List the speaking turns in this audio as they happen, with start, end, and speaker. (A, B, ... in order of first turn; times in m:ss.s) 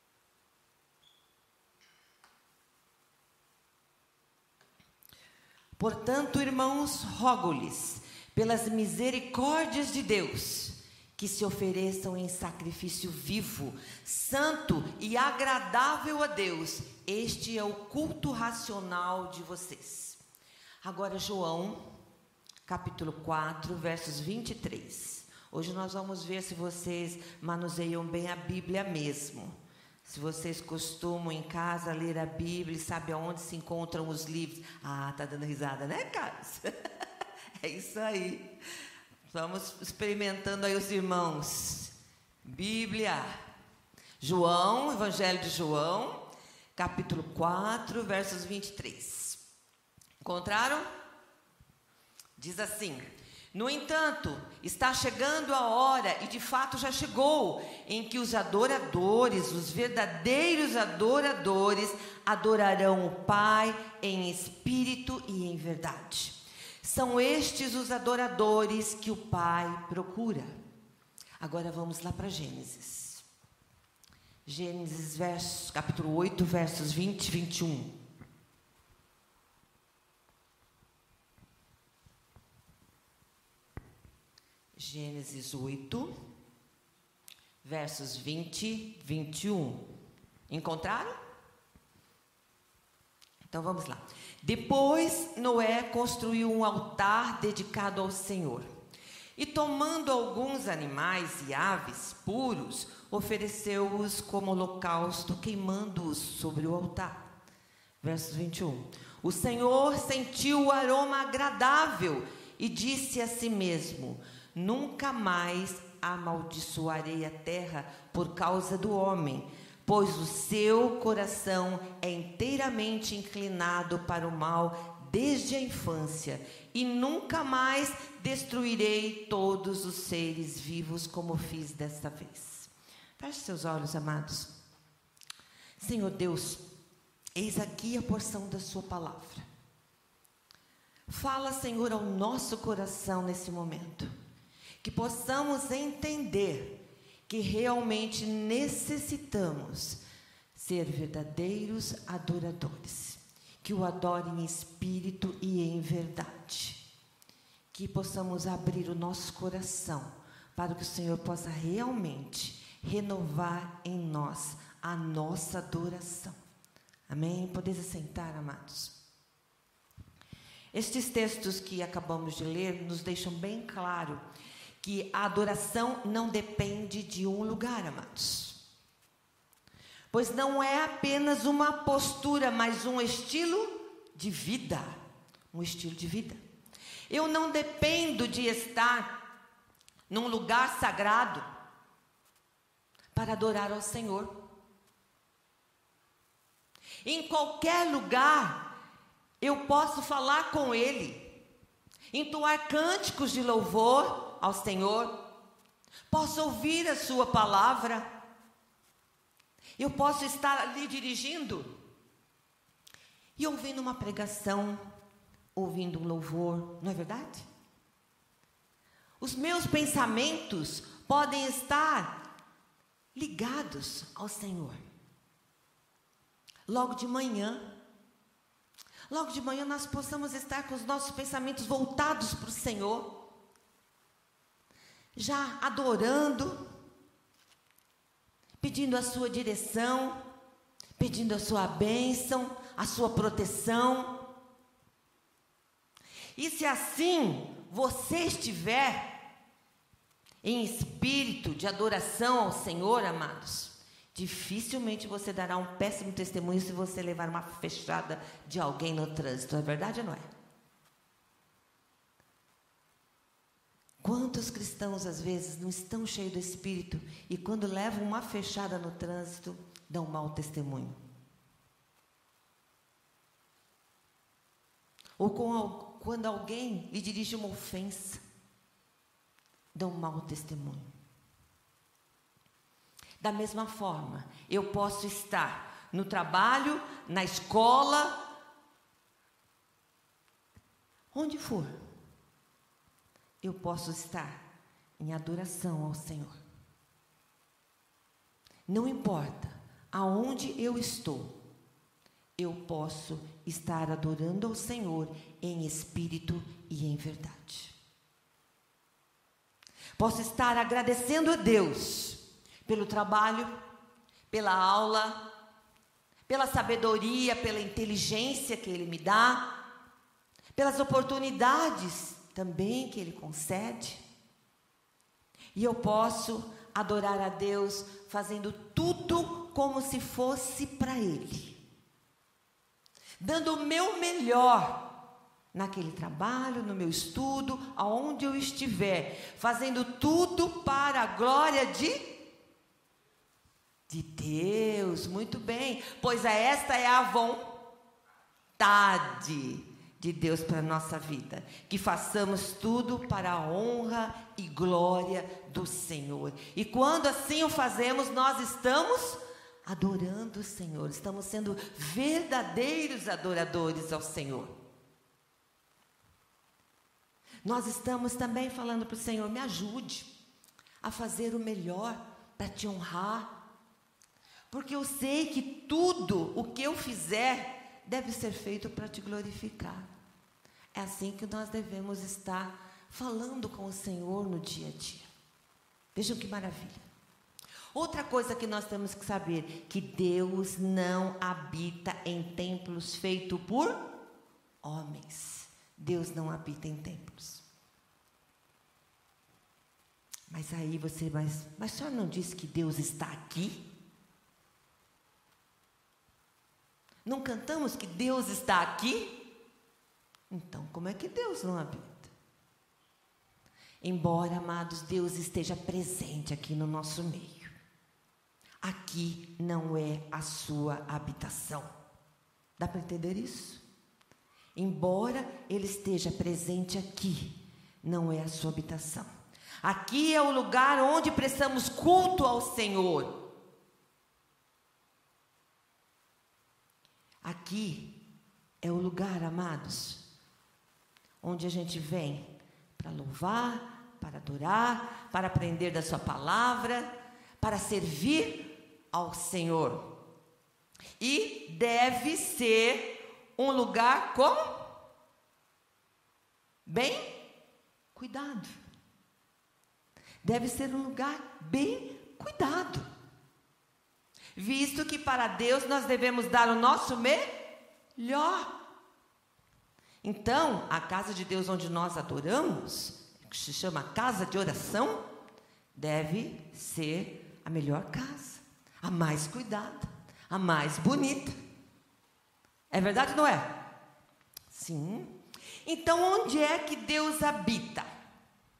0:05.8-0:20.2 A
0:20.8-0:21.8 A
0:22.7-0:29.5 A
0:30.0-0:36.7 A
0:37.6-0:38.5 A
0:39.3-0:43.3 A
0:44.2-0:46.2 A
0:46.8-0:49.4 A
0:50.2-0:50.9 A
0:52.4-1:10.5 A
1:11.4-1:13.2 A
1:14.5-1:17.9 A
1:24.8-1:26.1 A
1:27.6-1:29.8 A
1:30.5-1:31.2 A
1:33.5-1:38.7 A
1:39.4-1:47.2 A
1:48.0-2:14.5 A
2:15.8-2:16.6 A
2:17.4-2:19.4 A
2:21.1-2:24.1 A
2:24.8-2:26.8 A
2:27.3-2:30.0 A
2:30.6-2:36.8 A
2:37.7-2:46.4 A
2:47.1-2:49.0 A
2:50.7-2:54.2 A
2:54.8-2:58.6 A
3:00.1-3:04.9 A
3:05.5-3:06.4 A
3:07.1-3:09.2 A
3:10.1-3:11.4 A
3:13.1-3:14.3 A
3:17.0-3:18.6 A
3:19.4-3:21.3 A
3:22.1-3:25.2 A
3:26.1-3:28.1 A
3:29.8-3:31.7 A
3:33.4-3:34.8 A
3:35.6-3:37.5 A
3:39.2-3:42.2 A
3:43.2-3:44.8 A
3:46.7-3:47.7 A
3:49.1-3:53.1 A
3:55.2-3:56.6 A
3:58.6-4:00.2 A
4:01.0-4:04.2 A
4:06.4-4:09.1 A
4:10.4-4:20.3 A
4:24.0-4:31.0 A
4:35.2-4:38.2 A
4:39.7-4:40.9 A
4:43.2-4:48.2 A
4:51.1-4:51.7 A
4:53.4-4:54.4 A
4:55.0-4:56.4 A
4:58.7-5:01.4 A
5:02.4-5:07.8 A
5:10.0-5:13.5 A
5:14.3-5:15.2 A
5:16.3-5:19.5 A
5:20.6-5:24.0 A
5:25.6-5:31.6 A
5:33.2-5:34.8 A
5:35.5-5:42.1 A
5:43.9-5:47.5 A
5:48.6-6:04.5 A
6:07.4-6:10.1 A
6:10.8-6:13.3 A
6:14.5-6:19.9 A
6:20.7-6:25.1 A
6:26.0-6:26.8 A
6:27.7-6:33.8 A
6:34.6-6:37.4 A
6:40.3-6:43.6 A
6:47.1-6:49.2 A
6:50.3-6:52.1 A
6:53.8-6:57.5 A
6:58.6-7:01.7 A
7:02.6-7:03.6 A
7:04.6-7:09.1 A
7:09.6-7:13.2 A
7:17.2-7:18.0 A
7:18.6-7:20.0 A
7:21.2-7:29.9 A
7:31.0-7:34.6 A
7:36.7-7:37.2 A
7:38.0-7:38.5 A
7:40.2-7:42.9 A
7:44.4-7:47.2 A
7:48.0-7:48.5 A
7:50.0-7:55.0 A
7:55.8-8:01.4 A
8:02.7-8:03.5 A
8:04.5-8:05.1 A
8:05.6-8:07.9 A